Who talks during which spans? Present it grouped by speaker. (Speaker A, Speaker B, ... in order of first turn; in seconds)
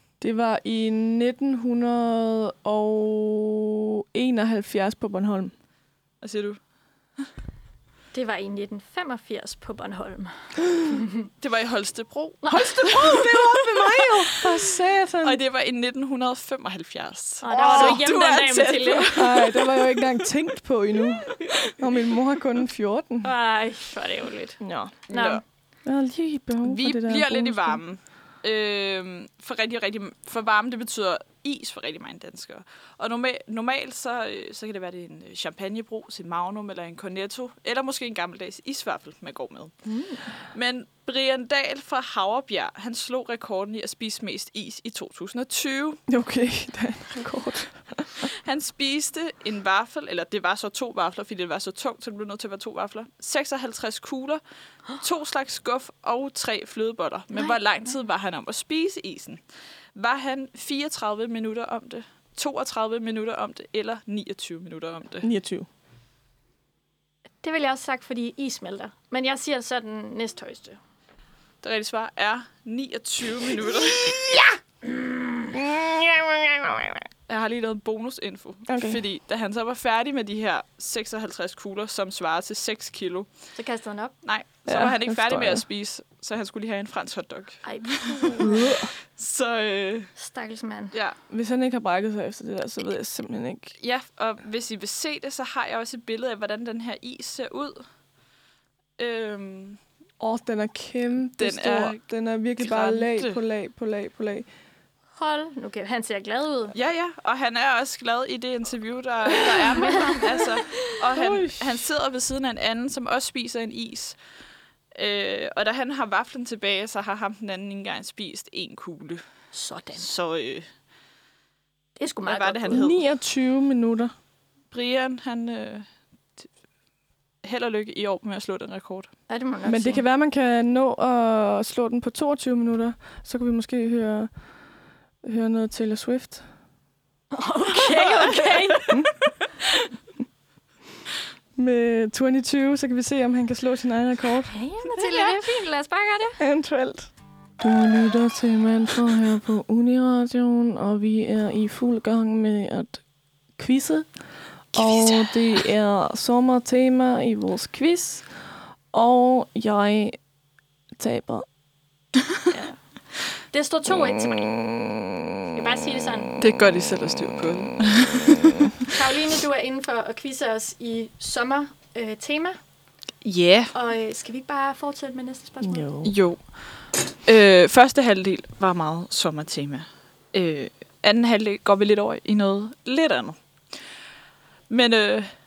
Speaker A: 0.2-5.5, 12.5-15.4, 17.5-18.1, 19.1-23.3, 24.6-25.1, 25.8-27.8, 46.1-48.1, 65.2-65.7, 75.5-77.0, 78.7-79.0, 84.7-85.6, 88.4-88.9, 91.3-93.7, 100.2-104.5, 111.1-111.8, 122.7-124.1, 129.6-134.3, 135.2-136.4, 141.6-144.5, 146.4-153.0, 153.5-154.1, 154.7-158.3, 158.9-160.2, 161.0-161.4, 175.6-176.1
Speaker B: 6.2-6.6, 11.4-14.3, 15.2-19.9, 25.1-25.4, 26.6-39.8, 40.5-46.0, 48.3-54.4, 55.0-59.4, 59.9-65.3, 71.6-74.4, 77.3-83.3, 84.2-88.5, 89.1-90.1, 93.8-97.8, 99.0-99.8, 101.4-102.0, 102.6-103.4, 106.7-114.2, 114.9-119.2, 119.9-120.7, 122.2-123.1, 124.7-126.5, 127.4-129.1, 137.8-138.8, 154.8-155.2, 166.4-168.7, 173.2-173.7, 176.0-183.4, 184.7-185.3
Speaker C: 8.1-11.3, 12.4-12.9, 17.4-19.2, 23.2-25.4, 39.9-40.2, 57.3-57.6, 67.4-70.8, 83.5-84.1, 87.6-88.6, 90.2-90.9, 105.1-106.7, 119.5-120.1, 122.0-122.9, 129.3-130.0, 137.3-138.9, 144.5-146.4, 162.5-162.8, 163.4-164.6, 165.5-166.3, 168.9-172.6, 173.7-175.9